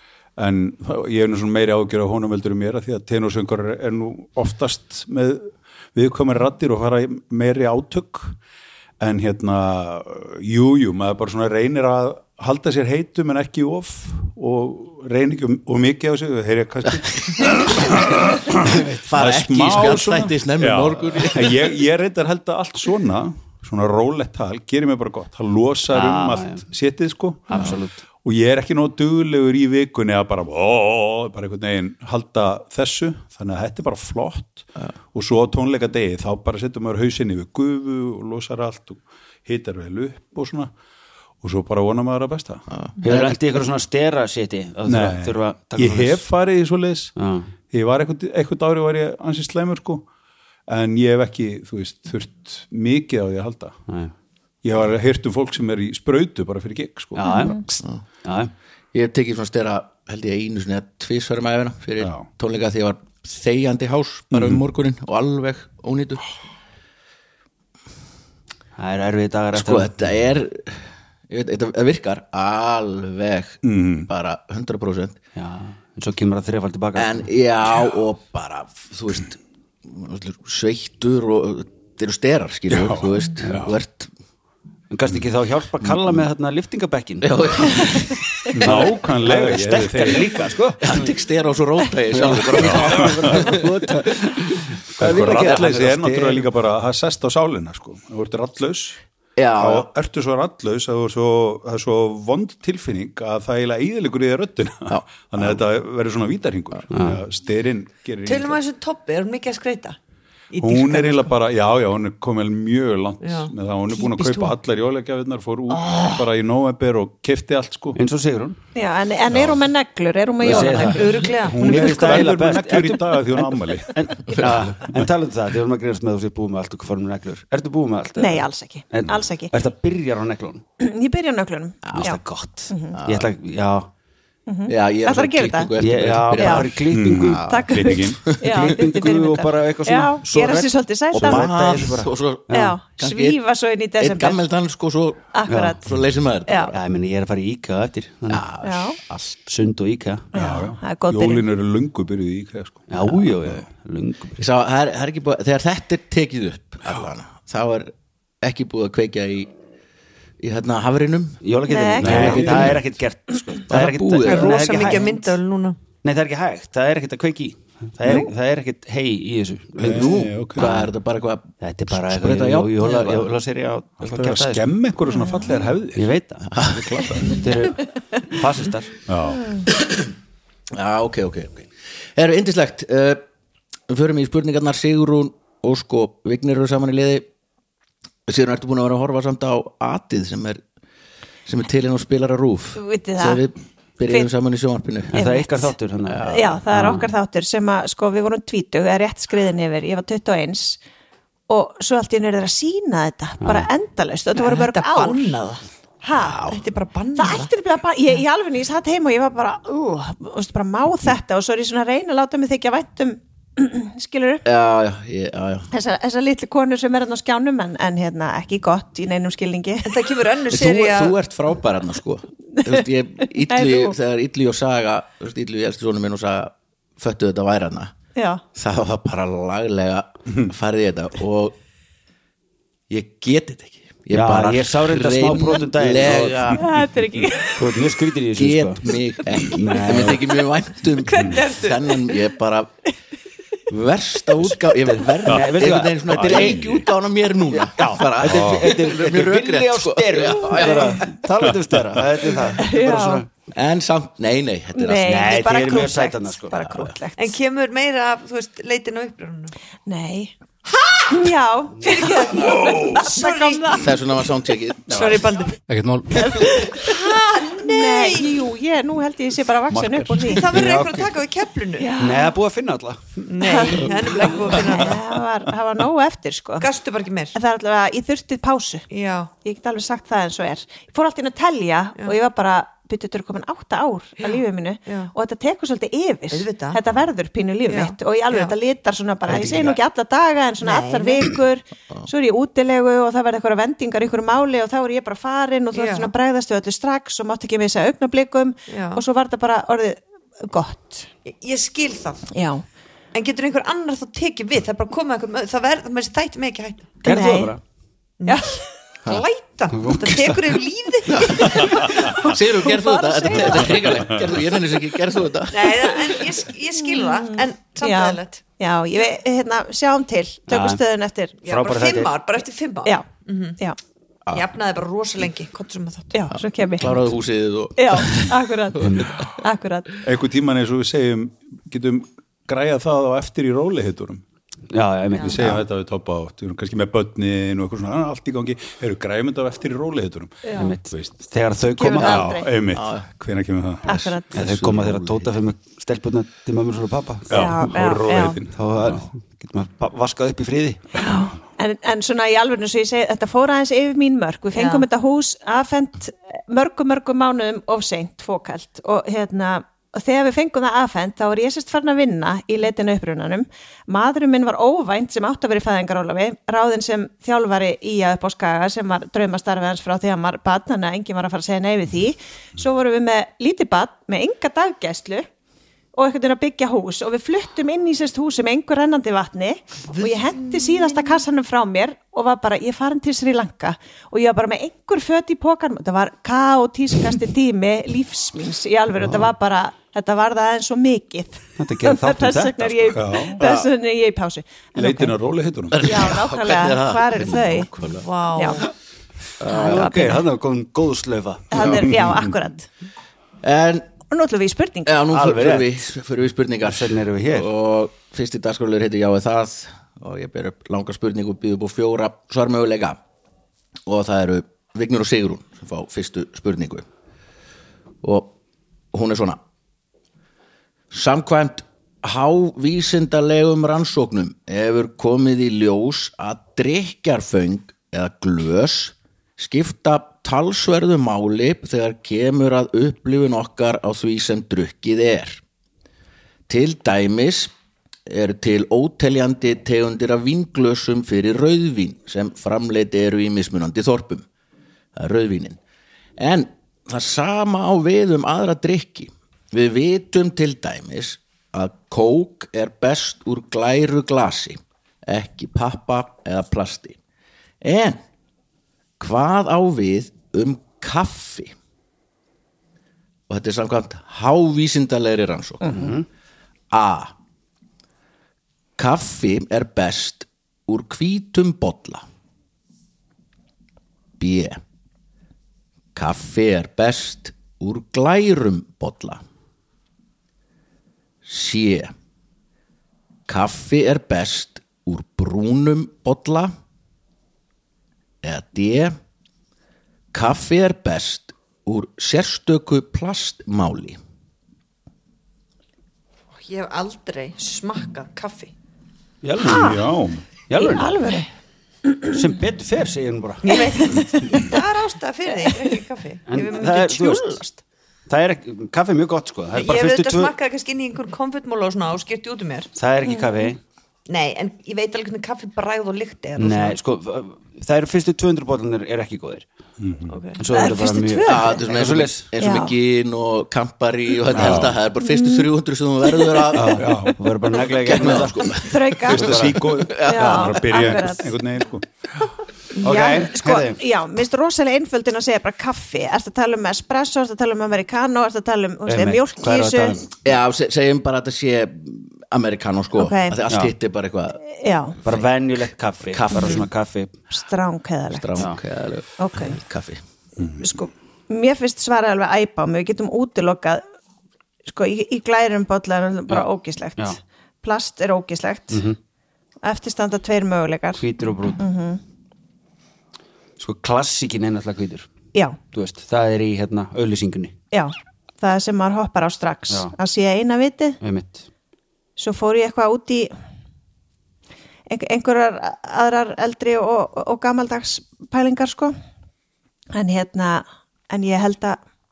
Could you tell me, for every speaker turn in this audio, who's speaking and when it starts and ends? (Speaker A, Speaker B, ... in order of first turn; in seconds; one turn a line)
Speaker A: 0.4-8.3
Speaker A: 9.0-40.7
Speaker B: 18.7-19.0
Speaker C: 18.7-21.7
Speaker B: 25.9-26.6
Speaker B: 27.5-28.0
Speaker A: 41.4-42.6
Speaker C: 42.7-43.4
Speaker B: 43.0-46.2
Speaker A: 44.9-47.1
Speaker B: 47.2-47.5
Speaker A: 47.7-50.1
Speaker A: 50.7-53.8
Speaker A: 54.6-57.3
Speaker B: 57.1-58.5
Speaker D: 57.2-57.6
Speaker C: 58.9-66.2
Speaker A: 62.0-62.3
Speaker A: 64.3-64.6
Speaker B: 68.8-69.9
Speaker C: 69.5-75.2
Speaker A: 73.6-74.1
Speaker B: 75.3-77.3
Speaker C: 76.9-84.1
Speaker A: 82.7-83.7
Speaker B: 84.9-88.0
Speaker C: 87.2-88.7
Speaker A: 88.5-90.5
Speaker B: 88.6-91.1
Speaker C: 90.8-94.1
Speaker B: 92.1-96.5
Speaker A: 92.5-93.5
Speaker A: 95.0-99.0
Speaker C: 95.0-95.6
Speaker C: 99.4-99.9
Speaker A: 99.6-108.6
Speaker C: 104.9-105.6
Speaker B: 106.9-107.2
Speaker E: 108.2-110.0
Speaker E: 110.5-111.3
Speaker A: 110.6-118.0
Speaker E: 113.2-114.5
Speaker E: 115.7-116.2
Speaker B: 118.0-118.6
Speaker D: 118.7-121.3
Speaker A: 119.3-119.6
Speaker B: 120.4-130.6
Speaker E: 120.4-122.2
Speaker A: 121.3-124.9
Speaker D: 128.2-129.5
Speaker D: 130.8-132.9
Speaker C: 131.8-132.1
Speaker B: 131.9-133.9
Speaker C: 132.9-133.3
Speaker D: 134.5-135.7
Speaker C: 134.7-138.6
Speaker B: 135.8-137.5
Speaker D: 136.3-136.7
Speaker A: 136.9-138.3
Speaker D: 137.3-141.5
Speaker B: 138.4-142.8
Speaker C: 141.1-143.4
Speaker D: 142.5-144.4
Speaker C: 144.0-145.3
Speaker D: 145.3-145.9
Speaker B: 145.5-145.8
Speaker C: 145.8-146.8
Speaker D: 146.5-146.7
Speaker B: 146.7-148.4
Speaker C: 148.3-149.4
Speaker D: 148.6-149.0
Speaker B: 149.4-150.3
Speaker D: 150.3-151.4
Speaker A: 150.3-153.6
Speaker B: 152.9-154.4
Speaker C: 154.4-159.5
Speaker C: 160.4-161.4
Speaker B: 161.4-165.2
Speaker D: 161.7-162.7
Speaker C: 162.0-162.8
Speaker A: 162.0-162.8
Speaker C: 163.7-165.1
Speaker E: 164.2-165.8
Speaker B: 166.0-170.9
Speaker A: 169.8-170.7
Speaker C: 169.8-173.3
Speaker B: 171.6-174.6
Speaker A: 174.0-177.4
Speaker D: 175.1-175.4
Speaker B: 175.9-176.6
Speaker C: 176.5-177.2
Speaker B: 177.2-179.0
Speaker A: 179.1-179.6
Speaker C: 179.7-180.0
Speaker C: 180.7-183.2
Speaker C: 183.9-187.2
Speaker C: 188.3-190.6
Speaker C: 191.4-195.2
Speaker D: 192.8-193.4
Speaker B: 195.1-197.1
Speaker D: 195.1-200.8
Speaker C: 196.0-196.6
Speaker D: 201.5-205.3
Speaker B: 203.4-203.7
Speaker E: 204.3-205.6
Speaker D: 206.0-206.5
Speaker C: 206.2-206.6
Speaker E: 206.4-207.5
Speaker D: 207.2-214.4
Speaker C: 214.4-215.7
Speaker D: 215.7-220.1
Speaker E: 219.8-221.2
Speaker C: 220.5-227.9
Speaker D: 222.6-222.8
Speaker D: 223.4-223.9
Speaker D: 228.1-228.4
Speaker C: 228.5-231.6
Speaker C: 232.9-236.7
Speaker B: 234.1-236.5
Speaker D: 236.6-237.6
Speaker B: 237.5-238.9
Speaker C: 238.3-242.7
Speaker B: 239.4-240.3
Speaker D: 241.1-242.1
Speaker C: 243.7-251.1
Speaker B: 244.7-246.7
Speaker A: 246.1-246.9
Speaker B: 247.5-253.3
Speaker A: 248.2-248.7
Speaker D: 250.5-251.0
Speaker A: 251.4-252.0
Speaker D: 252.6-253.2
Speaker C: 253.5-255.3
Speaker D: 254.7-257.4
Speaker B: 255.0-256.6
Speaker E: 257.2-259.5
Speaker D: 259.9-260.3
Speaker E: 260.7-261.2
Speaker D: 261.1-263.9
Speaker E: 261.8-263.9
Speaker A: 262.4-263.1
Speaker C: 263.8-265.1
Speaker A: 264.9-265.2
Speaker E: 264.9-265.6
Speaker D: 266.1-270.5
Speaker E: 266.7-268.4
Speaker A: 269.7-270.6
Speaker E: 270.2-271.9
Speaker B: 270.5-271.1
Speaker D: 271.8-272.4
Speaker B: 272.0-273.0
Speaker E: 273.3-275.0
Speaker D: 273.4-276.7
Speaker E: 276.6-277.4
Speaker D: 277.3-278.9
Speaker E: 278.9-279.3
Speaker D: 279.4-301.1
Speaker E: 284.2-285.1
Speaker E: 286.3-286.8
Speaker E: 287.7-288.5
Speaker E: 290.6-291.3
Speaker E: 295.7-296.1
Speaker E: 298.7-299.0
Speaker E: 301.2-302.3
Speaker D: 302.3-302.6
Speaker E: 303.1-307.0
Speaker B: 307.0-307.6
Speaker D: 307.0-307.6
Speaker E: 308.2-312.1
Speaker D: 308.2-308.6
Speaker B: 309.7-310.4
Speaker C: 311.1-316.2
Speaker D: 311.4-313.8
Speaker A: 311.6-312.1
Speaker A: 313.8-314.2
Speaker E: 315.5-318.4
Speaker D: 316.8-321.4
Speaker B: 320.5-320.8
Speaker E: 321.4-323.6
Speaker B: 321.5-322.1
Speaker E: 324.3-326.1
Speaker D: 326.1-327.1
Speaker C: 326.3-329.1
Speaker D: 327.8-329.9
Speaker B: 328.8-329.2
Speaker A: 330.0-334.2
Speaker B: 334.7-335.6
Speaker A: 335.2-341.2
Speaker D: 340.4-340.7
Speaker B: 340.6-342.3
Speaker D: 341.8-342.5
Speaker A: 342.0-344.0
Speaker C: 342.7-343.1
Speaker D: 343.9-344.3
Speaker C: 343.9-345.3
Speaker B: 344.3-347.6
Speaker A: 347.3-349.0
Speaker D: 347.3-348.4
Speaker B: 348.5-350.9
Speaker D: 351.0-375.3
Speaker E: 354.5-354.9
Speaker D: 375.9-395.1
Speaker E: 379.9-381.2
Speaker B: 391.6-393.0
Speaker A: 392.9-393.4
Speaker A: 394.8-396.1
Speaker C: 395.7-398.1
Speaker D: 395.8-397.7
Speaker E: 397.8-398.7
Speaker D: 398.4-398.6
Speaker C: 399.4-400.0
Speaker D: 399.4-400.2
Speaker B: 399.5-401.7
Speaker D: 401.5-402.7
Speaker A: 401.6-402.3
Speaker C: 403.4-403.9
Speaker D: 404.1-405.0
Speaker C: 404.8-413.0
Speaker B: 405.1-405.8
Speaker B: 406.6-407.5
Speaker C: 413.9-416.9
Speaker C: 418.0-418.3
Speaker C: 418.9-419.4
Speaker C: 420.9-435.4
Speaker C: 436.5-437.5
Speaker C: 438.1-444.2
Speaker C: 444.9-445.6
Speaker C: 446.2-457.0
Speaker C: 457.6-458.0
Speaker C: 459.0-461.5
Speaker C: 463.3-465.9
Speaker B: 465.7-466.1
Speaker C: 466.7-467.1
Speaker C: 468.8-472.0
Speaker C: 474.2-474.6
Speaker C: 475.9-479.2
Speaker C: 481.2-481.9
Speaker C: 483.3-486.5
Speaker C: 488.2-488.9
Speaker C: 490.1-494.0
Speaker E: 496.3-498.5
Speaker B: 499.2-499.9
Speaker A: 499.4-500.2
Speaker D: 499.4-499.8
Speaker B: 500.5-500.9
Speaker D: 500.6-501.3
Speaker D: 501.8-502.2
Speaker B: 502.1-503.6
Speaker E: 503.4-507.6
Speaker D: 503.5-504.6
Speaker D: 505.5-505.7
Speaker B: 506.3-507.4
Speaker B: 508.1-510.3
Speaker E: 509.5-512.7
Speaker B: 512.7-513.6
Speaker D: 513.0-513.5
Speaker E: 514.1-516.8
Speaker B: 516.4-519.5
Speaker A: 519.8-520.2
Speaker E: 520.1-520.5
Speaker B: 520.4-522.3
Speaker D: 520.5-521.7
Speaker C: 521.2-526.9
Speaker D: 522.4-522.7
Speaker A: 524.3-524.8
Speaker D: 525.0-525.5
Speaker D: 526.1-526.5
Speaker B: 526.5-528.6
Speaker A: 526.7-527.2
Speaker C: 527.6-530.7
Speaker D: 528.6-531.3
Speaker A: 529.0-531.9
Speaker B: 529.1-529.6
Speaker D: 532.8-540.0
Speaker B: 532.8-533.8
Speaker B: 538.9-540.1
Speaker C: 540.2-544.4
Speaker D: 542.9-543.4
Speaker D: 544.5-545.0
Speaker B: 545.0-547.1
Speaker C: 546.0-546.7
Speaker D: 547.3-548.5
Speaker C: 548.1-550.0
Speaker D: 549.2-549.6
Speaker A: 550.4-550.7
Speaker D: 550.6-553.8
Speaker D: 554.6-558.8
Speaker B: 558.7-559.0
Speaker D: 559.6-561.0
Speaker B: 561.0-561.6
Speaker D: 561.6-562.0
Speaker B: 563.6-565.1
Speaker B: 565.7-567.5
Speaker D: 567.7-571.0
Speaker B: 571.0-571.5
Speaker D: 572.2-573.3
Speaker D: 574.9-578.9
Speaker D: 579.9-581.8